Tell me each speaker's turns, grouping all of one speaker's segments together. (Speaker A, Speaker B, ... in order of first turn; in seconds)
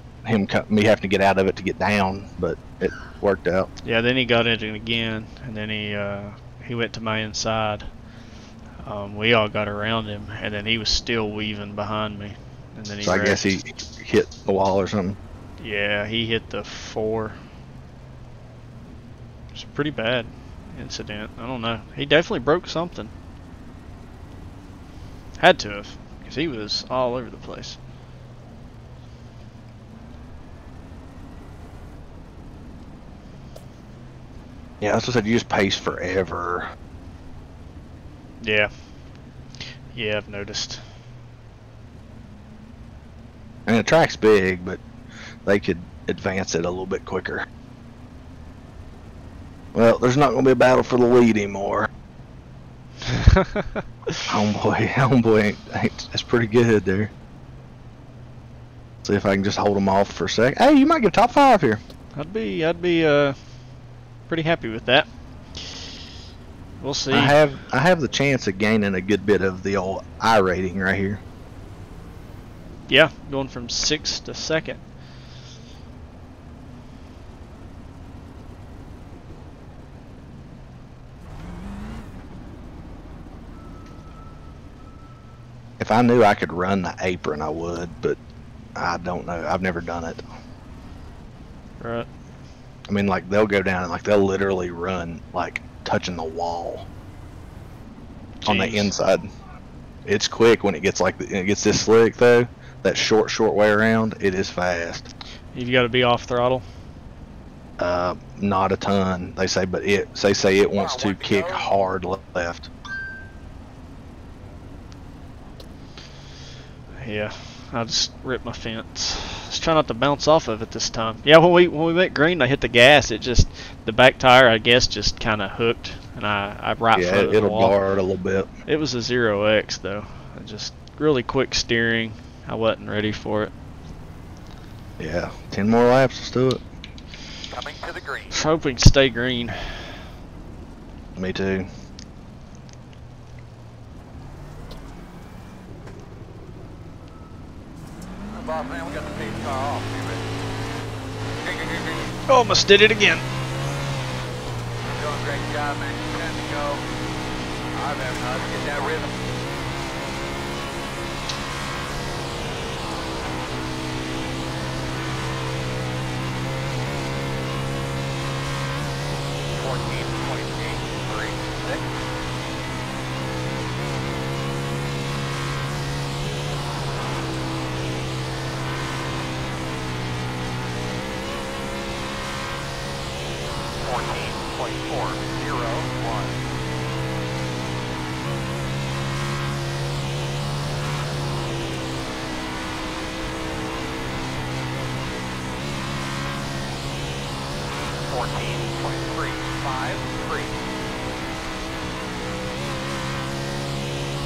Speaker A: 0.2-3.7, 13.0-15.2, 34.8-36.7, 43.6-44.8, 45.4-47.5, 49.7-51.9, 54.3-57.1, 59.0-61.8, 67.1-71.2, 85.8-88.2, 88.8-90.2, 92.9-96.9, 98.4-99.3, 100.0-105.1, 107.8-112.7, 126.9-128.5, 135.0-136.6, 141.2-141.7
Speaker B: 3.8-7.9, 8.8-13.6, 15.6-17.4, 19.5-23.1, 25.4-27.8, 38.4-38.7, 39.9-40.9, 53.1-54.2, 62.1-63.4, 64.3-65.9, 66.8-67.4, 72.9-74.8, 91.8-92.1, 98.4-99.0, 105.5-106.6, 117.0-127.8, 128.7-133.5, 138.3-140.0, 152.3-153.2
Speaker C: 110.8-111.7, 137.5-138.3, 148.3-150.2, 151.4-152.2, 154.8-156.8, 157.7-159.1, 169.5-172.0, 183.8-186.4, 198.0-200.6